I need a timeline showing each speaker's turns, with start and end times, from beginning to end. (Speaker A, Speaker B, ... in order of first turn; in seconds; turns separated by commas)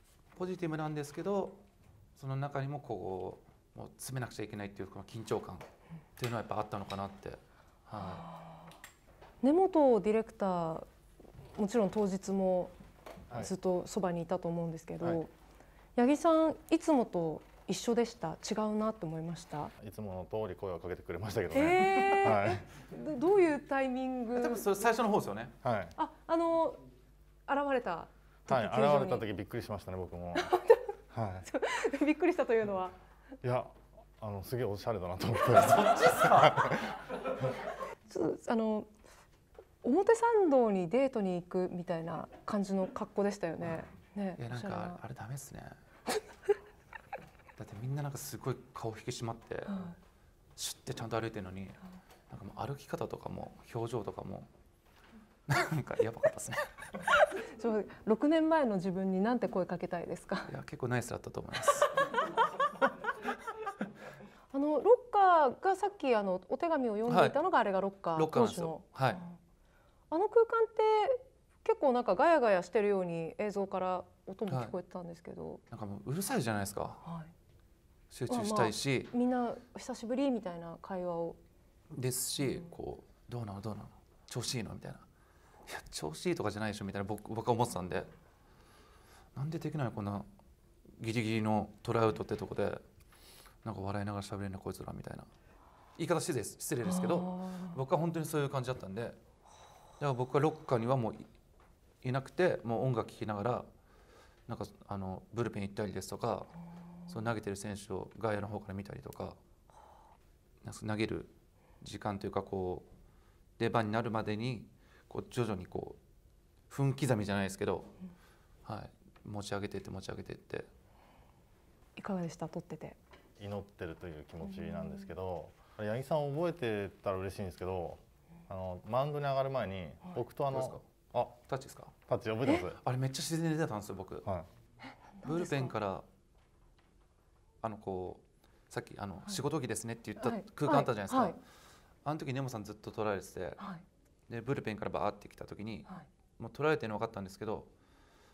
Speaker A: 0.3-1.6, Speaker A: 2.1-8.2, Speaker B: 8.0-8.7, Speaker B: 9.4-10.9, Speaker B: 11.5-12.7, Speaker B: 13.3-15.3, Speaker B: 15.9-19.7, Speaker C: 19.8-22.7, Speaker B: 21.5-24.8, Speaker A: 24.3-25.5, Speaker C: 25.6-25.9, Speaker B: 26.0-26.8, Speaker B: 27.5-29.2, Speaker C: 28.5-30.5, Speaker B: 30.3-30.9, Speaker C: 31.1-31.4, Speaker B: 31.4-33.0, Speaker C: 33.4-36.9, Speaker A: 35.5-36.9, Speaker B: 38.1-38.9, Speaker B: 39.8-45.0, Speaker A: 44.4-45.8, Speaker A: 47.6-49.8, Speaker B: 49.7-49.9, Speaker A: 50.5-51.8, Speaker A: 52.3-54.5, Speaker A: 55.5-56.7, Speaker B: 57.0-60.5, Speaker A: 60.5-61.9, Speaker B: 62.0-62.3, Speaker B: 64.5-69.3, Speaker A: 67.1-67.4, Speaker A: 68.1-69.2, Speaker B: 70.1-75.6, Speaker A: 74.5-74.7, Speaker A: 75.7-77.0, Speaker B: 77.0-77.3, Speaker A: 78.1-79.1, Speaker B: 78.3-81.4, Speaker A: 81.9-85.0, Speaker B: 82.4-82.7, Speaker A: 85.7-88.1, Speaker A: 89.3-90.3, Speaker A: 91.0-92.8, Speaker A: 93.6-95.3, Speaker A: 96.0-99.2, Speaker B: 96.8-97.8, Speaker A: 100.0-101.3, Speaker A: 102.0-103.7, Speaker A: 104.5-106.5, Speaker A: 107.1-109.4, Speaker A: 110.6-112.9, Speaker A: 113.6-116.0, Speaker A: 116.7-117.9, Speaker A: 118.6-120.7, Speaker B: 122.0-123.0, Speaker C: 123.4-131.4, Speaker B: 124.4-125.1, Speaker A: 130.5-130.8, Speaker A: 131.5-131.9, Speaker C: 132.1-132.8, Speaker B: 132.4-132.7, Speaker A: 132.8-134.3, Speaker B: 135.2-135.7, Speaker A: 135.2-136.1, Speaker A: 137.6-141.4, Speaker B: 140.2-141.4, Speaker A: 142.0-143.6, Speaker A: 144.3-147.7